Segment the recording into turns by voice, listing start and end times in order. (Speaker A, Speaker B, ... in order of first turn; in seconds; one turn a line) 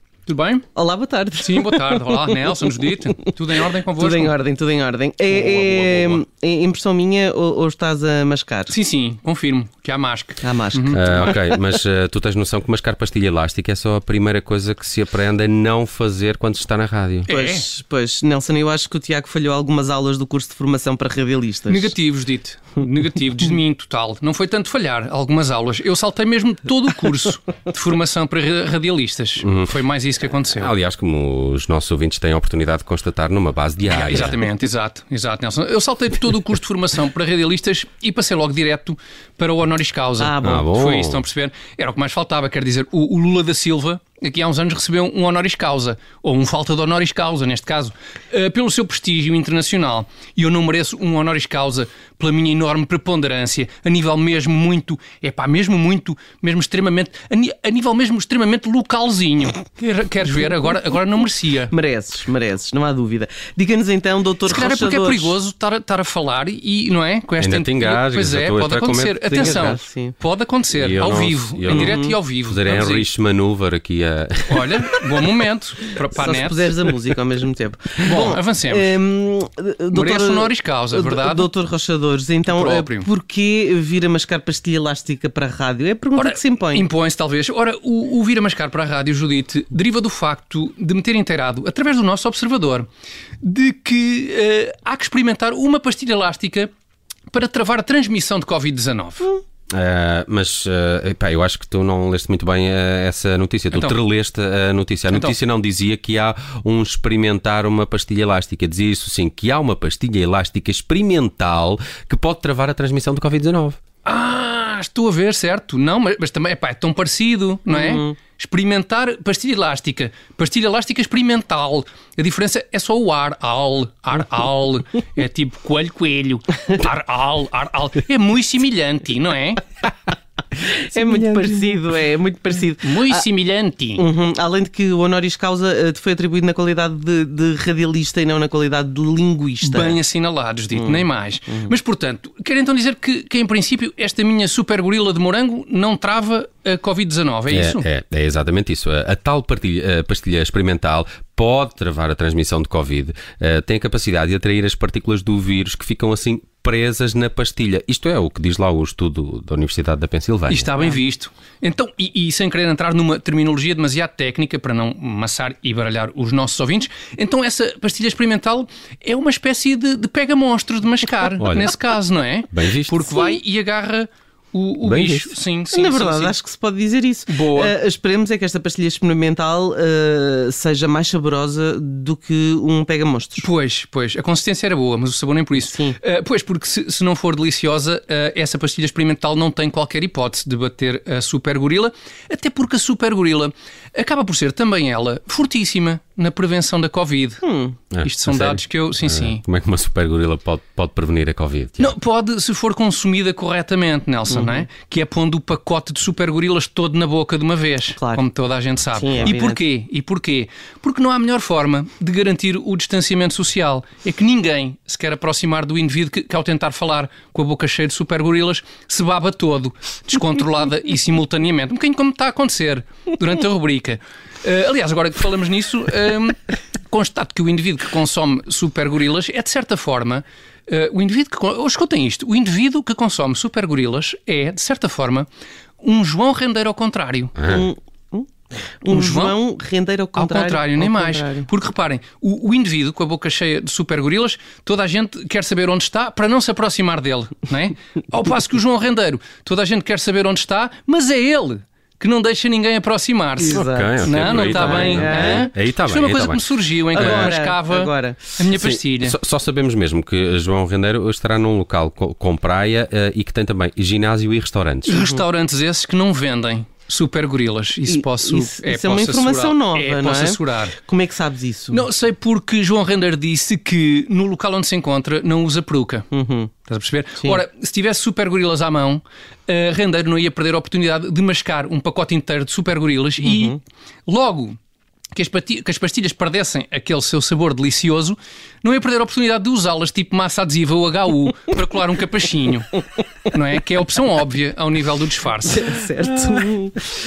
Speaker A: 0.3-0.7
Speaker B: 0.8-2.4
Speaker A: 1.4-4.3
Speaker B: 4.0-8.8
Speaker A: 8.7-11.4
Speaker B: 10.4-11.3
Speaker C: 10.9-17.3
Speaker A: 17.3-17.6
Speaker B: 17.3-21.9
Speaker A: 21.7-30.7
Speaker C: 29.4-29.7
Speaker C: 30.6-34.4
Speaker A: 33.9-61.7
Speaker B: 40.2-40.7
Speaker C: 40.4-41.2
Speaker B: 61.7-65.4
Speaker A: 64.5-73.1
Speaker C: 67.4-69.6
Speaker B: 69.2-70.2
Speaker C: 70.8-75.0
Speaker B: 71.7-72.2
Speaker A: 74.5-76.7
Speaker B: 76.1-86.9
Speaker A: 78.0-78.9
Speaker A: 79.9-81.5
Speaker A: 82.5-83.1
Speaker A: 86.2-92.9
Speaker A: 93.4-96.7
Speaker A: 97.3-99.4
Speaker C: 99.7-113.8
Speaker A: 103.7-104.0
Speaker A: 105.1-105.3
Speaker A: 114.0-129.6
Speaker B: 117.8-118.1
Speaker B: 130.6-133.2
Speaker A: 132.8-134.0
Speaker B: 134.0-140.0
Speaker A: 139.6-147.9
Speaker B: 140.7-141.8
Speaker C: 147.5-160.7
Speaker A: 160.5-176.3
Speaker C: 171.4-171.7
Speaker C: 172.5-173.1
Speaker C: 174.8-175.3
Speaker B: 175.7-183.5
Speaker A: 177.3-177.7
Speaker A: 183.4-197.4
Speaker B: 185.6-186.0
Speaker B: 197.4-197.8
Speaker C: 197.9-201.9
Speaker A: 198.0-199.4
Speaker A: 201.8-235.3
Speaker B: 204.3-204.6
Speaker B: 208.0-208.2
Speaker B: 209.0-209.6
Speaker A: 235.8-237.4
Speaker C: 237.4-237.6
Speaker B: 237.5-238.3
Speaker B: 238.8-241.5
Speaker A: 238.8-239.4
Speaker A: 240.2-259.2
Speaker B: 253.4-255.4
Speaker C: 253.5-257.4
Speaker B: 256.9-258.3
Speaker C: 258.4-265.0
Speaker A: 264.9-270.8
Speaker B: 265.0-265.3
Speaker B: 267.9-271.8
Speaker A: 271.7-276.1
Speaker B: 276.1-276.5
Speaker A: 276.6-284.6
Speaker B: 283.2-283.6
Speaker A: 285.1-295.8
Speaker B: 295.5-296.9